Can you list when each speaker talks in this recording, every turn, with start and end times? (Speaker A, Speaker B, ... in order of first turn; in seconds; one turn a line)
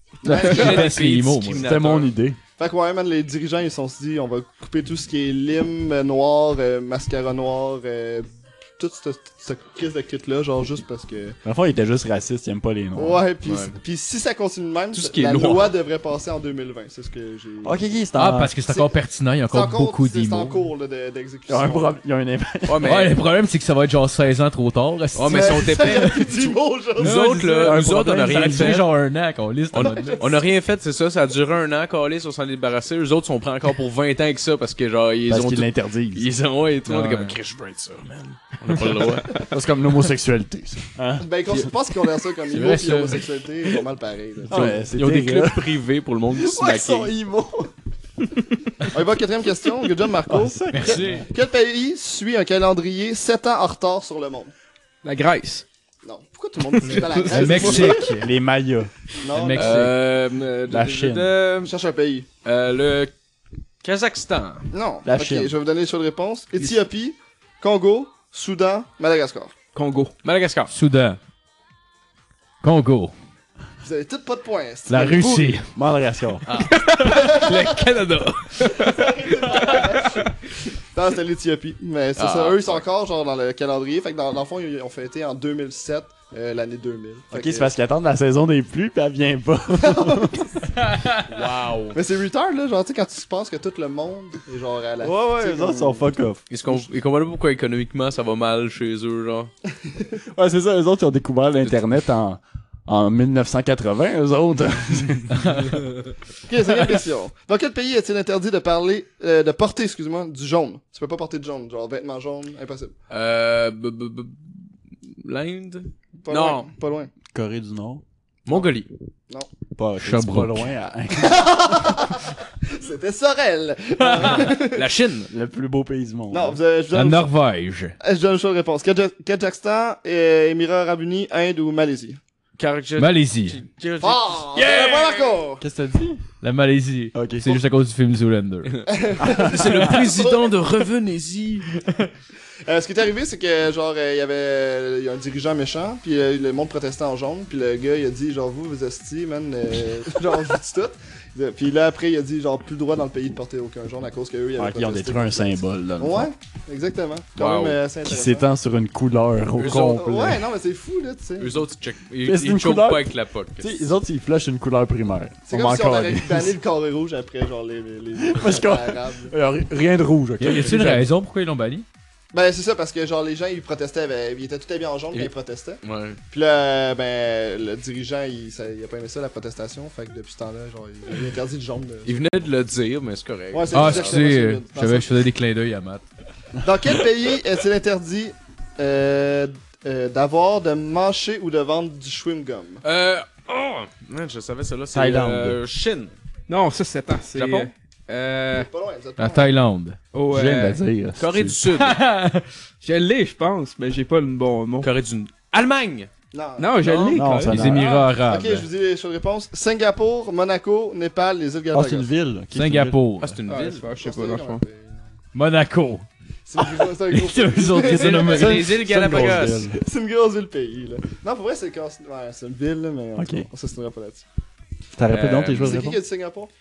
Speaker A: 0.2-0.9
Speaker B: 0.2-1.6
Speaker C: 0.3-2.1
Speaker D: 1.6-2.4
Speaker A: 2.6-11.4
Speaker D: 11.4-13.2
Speaker A: 12.9-17.8
Speaker C: 13.4-13.8
Speaker C: 14.9-15.8
Speaker D: 17.6-18.5
Speaker B: 18.1-20.6
Speaker A: 19.5-22.0
Speaker D: 21.5-23.0
Speaker C: 22.6-23.2
Speaker B: 22.8-26.2
Speaker C: 25.1-26.3
Speaker A: 25.3-27.2
Speaker C: 27.0-28.9
Speaker B: 27.0-30.2
Speaker D: 27.6-28.8
Speaker C: 29.7-39.5
Speaker A: 29.8-30.3
Speaker D: 35.3-36.3
Speaker B: 36.9-37.3
Speaker D: 39.5-41.7
Speaker A: 41.2-44.7
Speaker B: 42.5-43.2
Speaker D: 44.5-47.7
Speaker C: 44.5-47.1
Speaker A: 48.9-54.5
Speaker D: 50.2-51.2
Speaker B: 50.7-51.3
Speaker E: 55.0-55.6
Speaker A: 56.0-58.1
Speaker E: 56.8-57.5
Speaker B: 57.2-58.3
Speaker D: 57.4-58.9
Speaker A: 59.2-59.9
Speaker B: 59.3-60.0
Speaker C: 59.5-61.7
Speaker D: 60.7-61.4
Speaker A: 61.6-62.2
Speaker C: 62.4-63.1
Speaker C: 63.8-64.7
Speaker A: 64.7-69.5
Speaker D: 65.0-65.5
Speaker E: 69.7-70.1
Speaker C: 70.2-70.7
Speaker B: 70.7-71.2
Speaker B: 72.6-73.1
Speaker A: 73.8-75.6
Speaker B: 74.9-75.7
Speaker D: 75.7-76.4
Speaker C: 76.5-78.7
Speaker E: 76.7-77.3
Speaker A: 77.1-77.7
Speaker A: 78.7-80.4
Speaker A: 80.9-87.7
Speaker C: 82.2-82.8
Speaker D: 87.3-90.5
Speaker A: 89.8-90.7
Speaker B: 90.8-91.2
Speaker C: 91.2-92.0
Speaker A: 91.9-96.1
Speaker D: 95.0-96.4
Speaker C: 96.5-99.5
Speaker D: 100.3-105.7
Speaker B: 105.3-105.8
Speaker A: 106.5-112.9
Speaker C: 113.1-114.5
Speaker C: 115.2-116.7
Speaker A: 116.2-117.1
Speaker D: 117.3-118.0
Speaker C: 118.5-118.9
Speaker D: 119.8-121.9
Speaker B: 120.0-120.7
Speaker A: 121.2-124.8
Speaker C: 124.2-125.3
Speaker D: 125.3-126.6
Speaker A: 126.3-127.3
Speaker B: 126.9-128.0
Speaker A: 128.0-132.2
Speaker C: 132.6-135.4
Speaker B: 133.0-133.6
Speaker A: 134.0-135.6
Speaker D: 135.6-136.2
Speaker B: 136.4-138.8
Speaker D: 137.1-137.6
Speaker C: 138.7-141.7
Speaker A: 138.9-140.5
Speaker D: 139.2-139.7
Speaker A: 142.7-158.5
Speaker D: 154.6-156.3
Speaker C: 157.3-157.8
Speaker D: 158.0-160.4
Speaker C: 159.6-160.2
Speaker A: 159.6-161.6
Speaker C: 161.4-163.9
Speaker D: 162.2-166.6
Speaker A: 165.5-169.3
Speaker D: 168.2-171.1
Speaker B: 170.4-171.8
Speaker A: 172.3-182.2
Speaker C: 175.8-176.2
Speaker C: 182.0-184.2
Speaker A: 183.5-185.2
Speaker B: 183.7-186.0
Speaker A: 186.6-192.8
Speaker C: 192.8-196.1
Speaker D: 194.9-195.6
Speaker E: 196.5-198.7
Speaker C: 197.3-197.7
Speaker A: 198.5-199.5
Speaker B: 199.2-200.0
Speaker E: 200.1-200.8
Speaker D: 200.3-201.6
Speaker C: 201.2-202.0
Speaker B: 201.7-202.4
Speaker E: 202.8-204.9
Speaker C: 204.8-206.1
Speaker A: 206.3-207.0
Speaker E: 206.6-207.8
Speaker C: 206.8-207.2
Speaker D: 207.1-207.9
Speaker B: 207.5-208.7
Speaker A: 207.7-212.1
Speaker D: 211.7-213.0
Speaker B: 212.5-213.4
Speaker C: 213.2-213.9
Speaker E: 213.5-214.6
Speaker A: 213.9-215.0
Speaker B: 215.3-216.1
Speaker A: 216.4-218.4
Speaker B: 217.1-218.7
Speaker D: 217.8-219.8
Speaker C: 217.9-219.7
Speaker A: 219.7-224.2
Speaker D: 223.2-223.5
Speaker D: 224.9-226.0
Speaker C: 225.1-225.8
Speaker A: 225.6-226.5